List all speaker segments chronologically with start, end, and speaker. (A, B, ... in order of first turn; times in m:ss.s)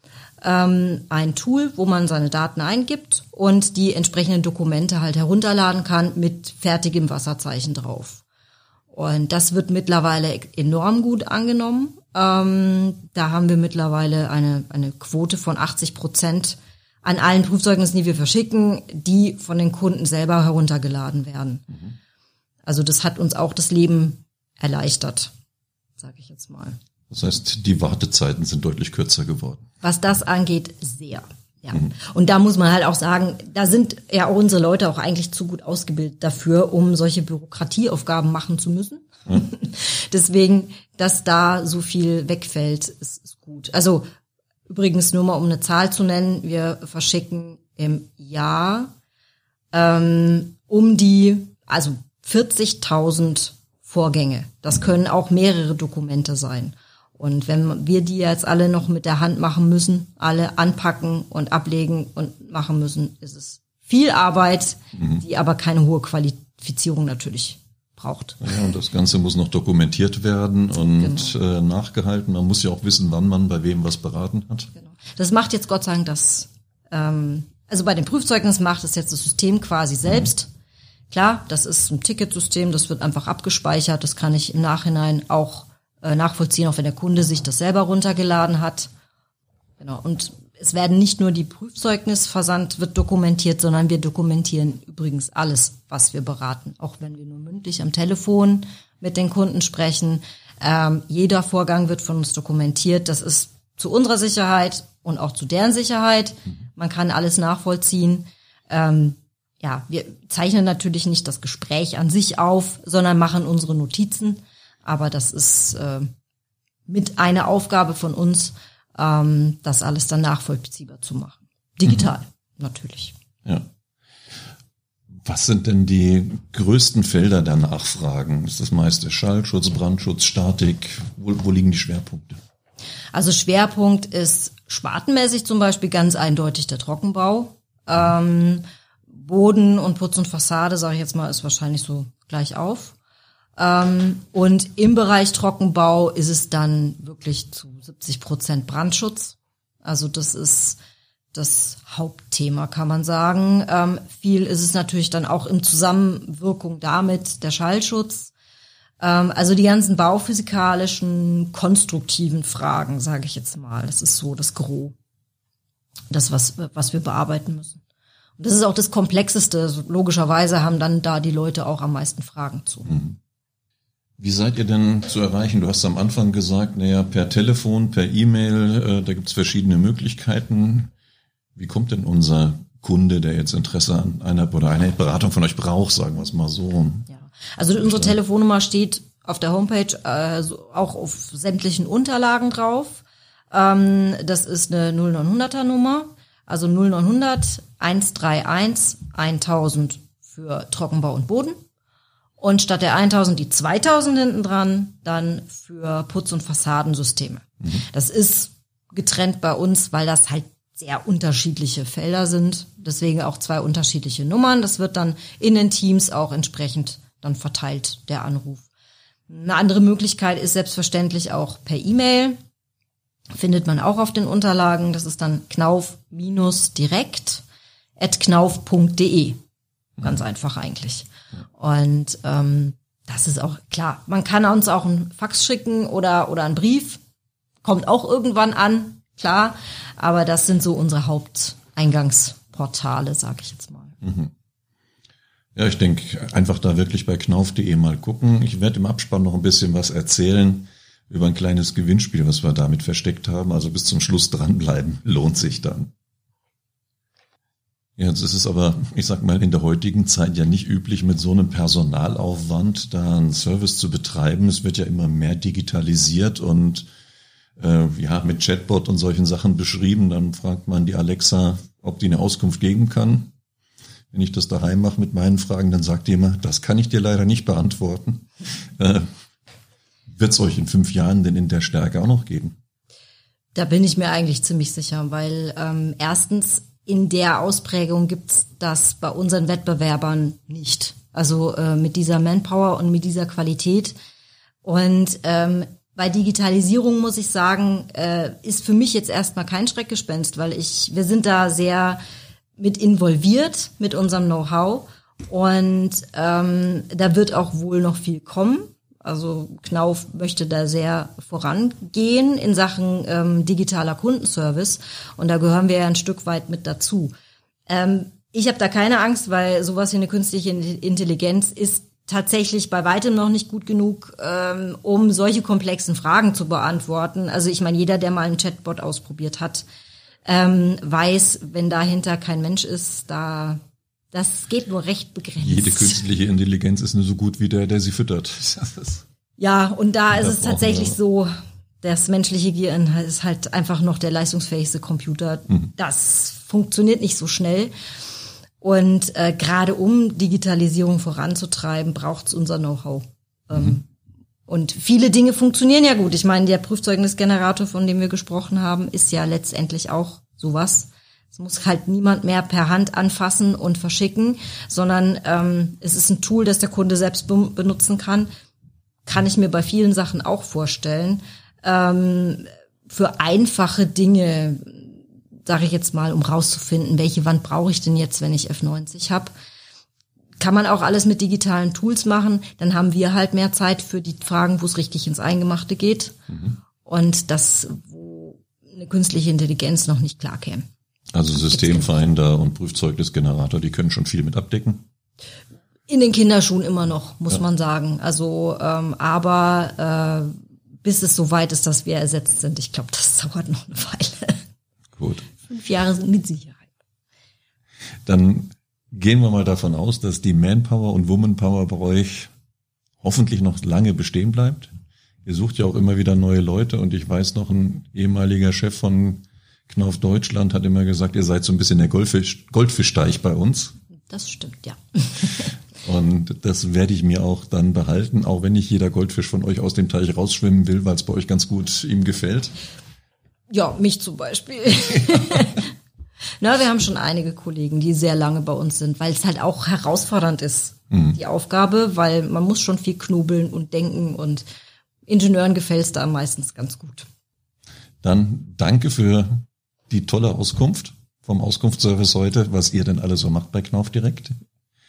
0:00.4-0:08.2 A
0:08.9-0:21.7 A
0:22.6-0:25.3 A
0:26.0-0:26.8 A
0:27.1-0:29.6 B
0:29.8-0:44.1 A
0:44.7-0:48.9 A
0:49.7-1:08.4 A
1:08.4-1:14.7 B
1:11.0-1:11.3 A
1:14.7-1:20.5 A
1:21.1-1:28.9 A
1:29.8-1:56.1 A
1:56.9-2:03.1 A
2:05.2-2:12.4 B
2:13.1-2:23.0 A
2:23.6-2:30.8 A
2:31.3-2:38.3 A
2:39.0-2:45.0 A
2:46.1-2:47.8 A
2:48.4-2:52.9 A
2:52.9-2:53.2 B
2:54.2-3:00.9 B
3:01.6-3:07.1 B
3:07.1-3:21.6 A
3:07.8-3:08.2 B
3:22.4-3:38.7 A
3:39.3-3:42.4 A
3:43.4-3:47.4 A
3:48.0-3:49.4 A
3:50.0-3:57.0 A
3:57.6-4:04.0 A
4:04.0-4:04.3 B
4:05.6-4:15.9 B
4:18.0-4:26.9 B
4:27.6-4:33.3 B
4:34.1-4:39.1 B
4:40.2-4:42.6 B
4:43.5-4:54.0 A
4:54.6-5:02.0 A
5:02.6-5:17.1 A
5:17.7-5:29.7 A
5:30.2-5:33.6 A
5:34.1-5:36.0 A
5:35.4-5:39.0 B
5:39.4-5:41.3 A
5:40.1-5:41.0 B
5:41.8-5:47.7 A
5:48.6-5:53.9 A
5:54.5-6:08.3 A
6:09.1-6:19.3 A
6:20.4-6:26.2 A
6:26.3-6:26.6 B
6:26.8-6:30.7 A
6:31.1-6:34.8 B
6:31.4-6:31.9 A
6:35.9-6:44.4 A
6:45.0-6:45.3 B
6:45.4-6:46.7 A
6:48.1-6:52.3 B
6:53.0-6:54.7 B
6:55.2-7:03.7 B
7:04.1-7:05.5 A
7:05.8-7:12.5 B
7:13.5-7:15.7 A
7:16.4-7:24.5 A
7:20.9-7:21.2 B
7:25.1-7:27.1 A
7:28.0-7:34.4 B